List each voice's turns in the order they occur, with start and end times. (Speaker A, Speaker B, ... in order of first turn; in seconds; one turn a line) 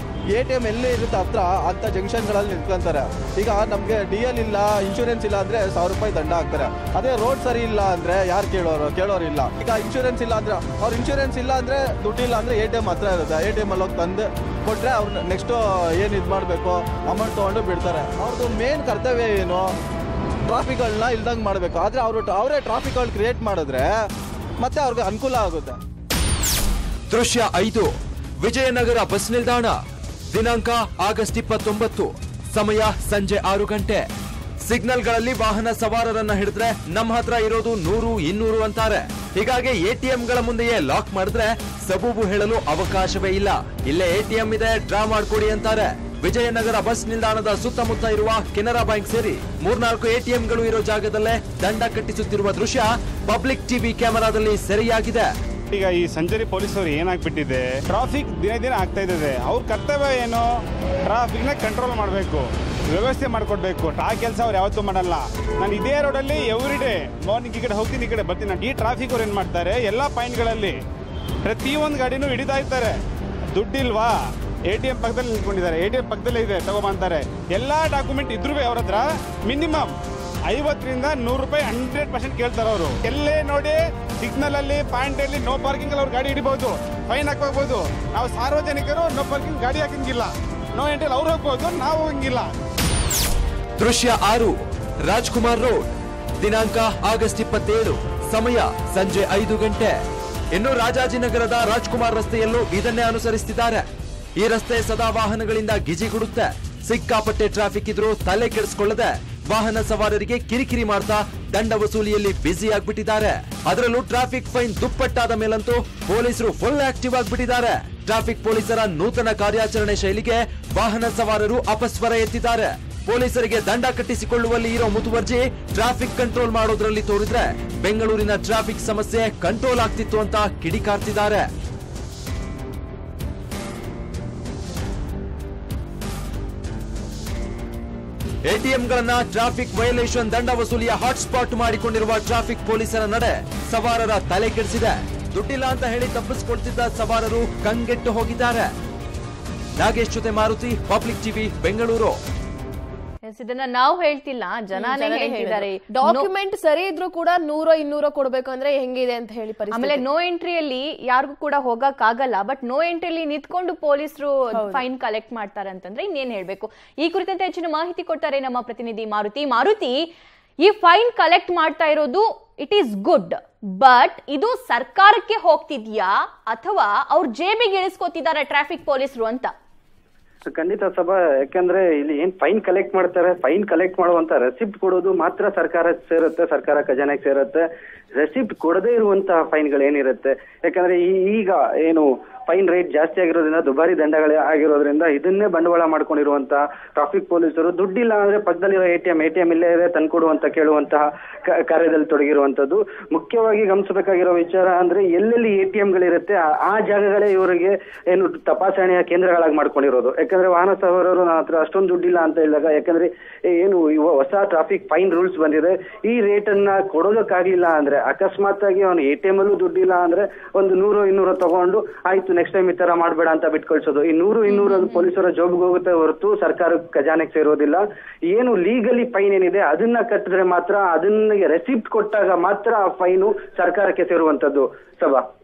Speaker A: 0.3-19.7
Speaker A: 20.5-23.9
Speaker A: 24.6-25.8
Speaker B: 27.1-29.7
Speaker B: 30.3-34.1
Speaker B: 34.6-55.3
Speaker C: 55.7-60.5
Speaker C: 61.1-70.8
Speaker C: 71.4-73.0
Speaker C: 73.5-74.1
Speaker C: 74.7-79.9
Speaker C: 80.5-92.5
Speaker B: 93.8-100.0
Speaker B: 100.5-103.8
Speaker B: 104.4-131.5
Speaker B: 138.5-148.7
Speaker B: 149.8-152.2
Speaker D: 153.2-156.3
Speaker E: 154.7-160.0
Speaker D: 159.7-170.1
Speaker E: 164.5-164.8
Speaker D: 170.6-179.5
Speaker F: 180.5-235.2
Speaker D: 224.5-225.0